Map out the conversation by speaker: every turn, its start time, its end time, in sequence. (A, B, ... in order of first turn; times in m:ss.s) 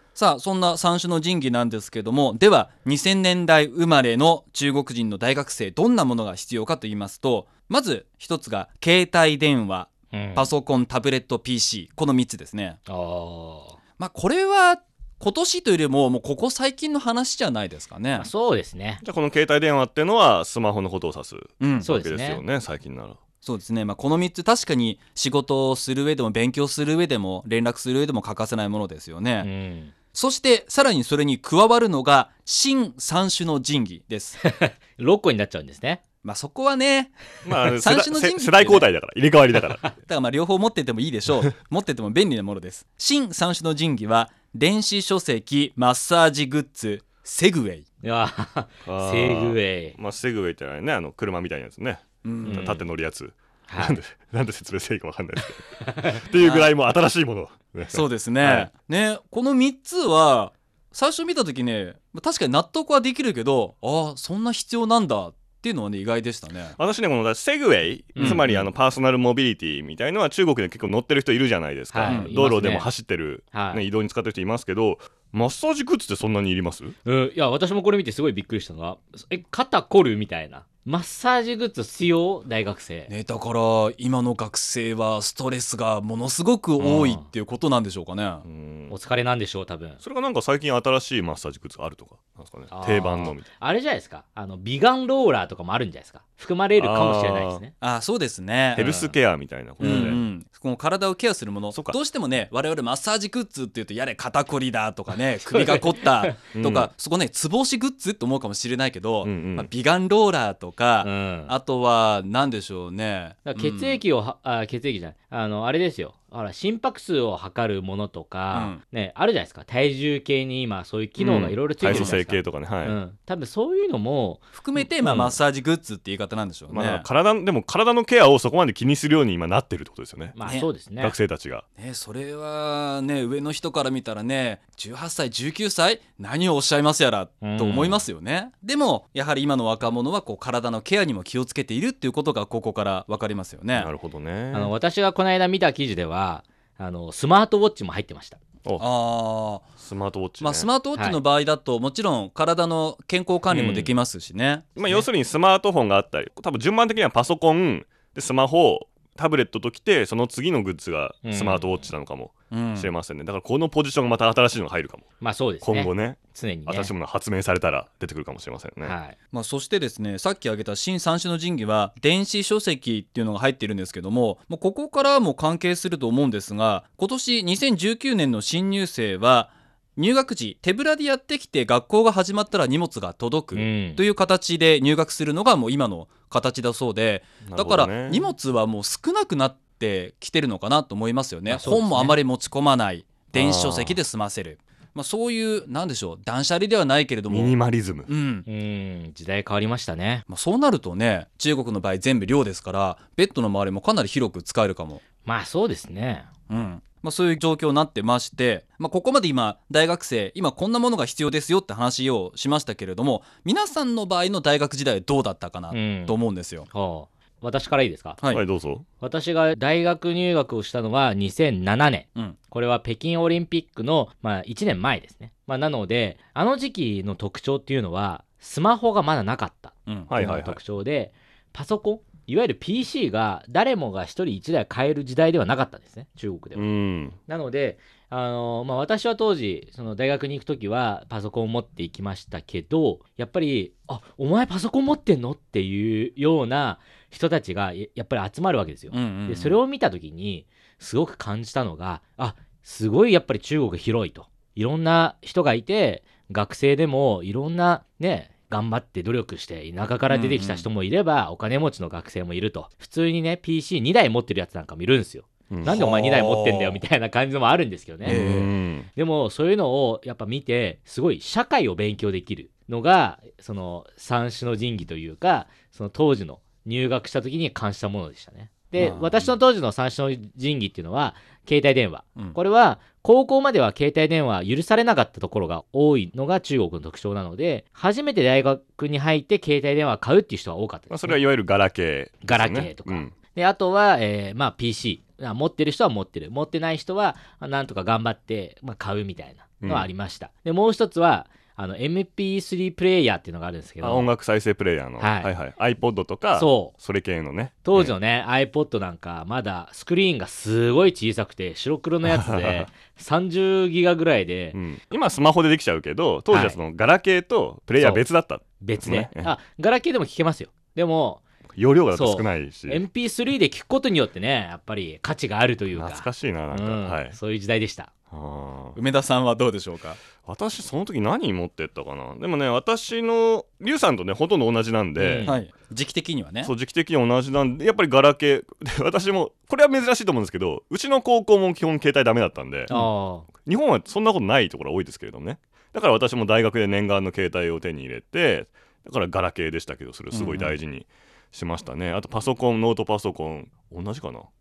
0:00.2-0:12.8 A
0:10.1-0:10.5 B
0:12.9-0:13.8 B
0:14.0-0:18.3 A
0:18.2-0:19.0 B
0:19.0-0:23.2 C
0:21.6-0:21.9 A
0:21.8-0:22.4 B
0:23.4-0:29.5 A
0:29.4-0:29.9 B
0:30.1-0:34.4 A
0:34.4-0:36.0 B
0:36.2-0:37.2 A
0:37.4-0:39.8 C
0:37.7-0:38.9 A
0:40.0-0:47.8 A
0:48.0-0:50.0 B
0:48.8-0:58.7 C
0:52.2-0:52.8 A
0:52.4-0:52.8 B
0:53.7-0:54.0 B
0:55.8-0:56.2 B
0:56.4-0:56.7 A
0:57.9-1:06.8 A
1:06.8-1:17.0 C
1:08.2-1:08.4 A
1:08.2-1:08.7 B
1:11.9-1:12.9 B
1:12.0-1:12.3 A
1:13.5-1:13.8 B
1:17.0-1:23.1 B
1:23.1-1:28.4 A
1:26.8-1:27.3 B
1:28.4-1:29.0 C
1:28.9-1:30.0 B
1:30.0-1:33.5 C
1:32.7-1:37.7 B
1:36.8-1:37.6 C
1:37.8-1:38.8 A
1:38.8-1:39.2 B
1:38.8-1:40.2 C
1:39.8-1:54.0 A
1:39.8-1:40.2 B
1:45.5-1:46.3 B
1:46.5-1:46.9 C
1:49.2-1:49.7 C
1:51.0-1:51.5 B
1:53.4-2:05.3 B
1:58.5-1:58.8 A
2:01.2-2:03.0 C
2:01.8-2:02.2 A
2:04.5-2:07.1 A
2:06.7-2:10.4 C
2:10.3-2:11.2 B
2:11.0-2:11.6 C
2:11.8-2:23.9 A
2:17.4-2:18.0 B
2:23.7-2:24.7 C
2:24.5-2:28.4 B
2:28.8-2:29.7 A
2:29.8-2:30.7 C
2:30.4-2:34.8 A
2:33.5-2:33.9 C
2:34.8-2:45.0 C
2:41.2-2:41.9 B
2:42.5-2:42.9 A
2:45.2-2:46.9 B
2:45.6-2:49.0 C
2:48.8-2:49.2 B
2:49.3-3:17.5 A
3:03.5-3:04.0 B
3:07.4-3:08.3 C
3:11.5-3:12.2 B
3:13.4-3:14.0 C
3:17.3-3:18.1 C
3:18.1-3:18.4 A
3:18.4-3:20.2 B
3:20.3-3:25.0 A
3:25.2-3:26.3 B
3:26.5-3:36.7 A
3:35.7-3:36.2 B
3:36.7-3:38.2 B
3:38.3-3:38.8 C
3:39.0-4:28.3 B
3:49.9-3:50.1 A
3:50.1-3:50.6 C
3:56.5-3:57.2 C
4:08.9-4:09.6 A
4:20.1-4:20.6 A
4:25.5-4:25.8 C
4:25.6-4:26.8 A
4:28.0-4:28.5 A
4:28.0-4:28.9 C
4:28.9-4:51.2 B
4:38.8-4:39.3 A
4:50.9-4:53.1 C
4:52.2-5:04.1 B
4:59.6-4:59.9 C
5:03.8-5:07.9 C
5:05.0-5:05.3 B
5:06.3-5:06.7 B
5:07.6-5:14.6 B
5:12.0-5:12.7 C
5:14.5-5:19.3 C
5:16.3-5:16.6 B
5:17.8-5:18.0 B
5:18.6-5:21.2 B
5:21.5-5:22.8 C
5:21.9-5:27.9 B
5:25.7-5:27.2 C
5:28.1-5:28.8 C
5:28.8-5:30.0 A
5:30.2-5:35.3 C
5:35.0-5:35.3 B
5:35.2-5:36.5 A
5:36.4-5:42.7 C
5:42.7-5:43.3 B
5:43.4-5:54.3 C
5:50.1-5:50.6 A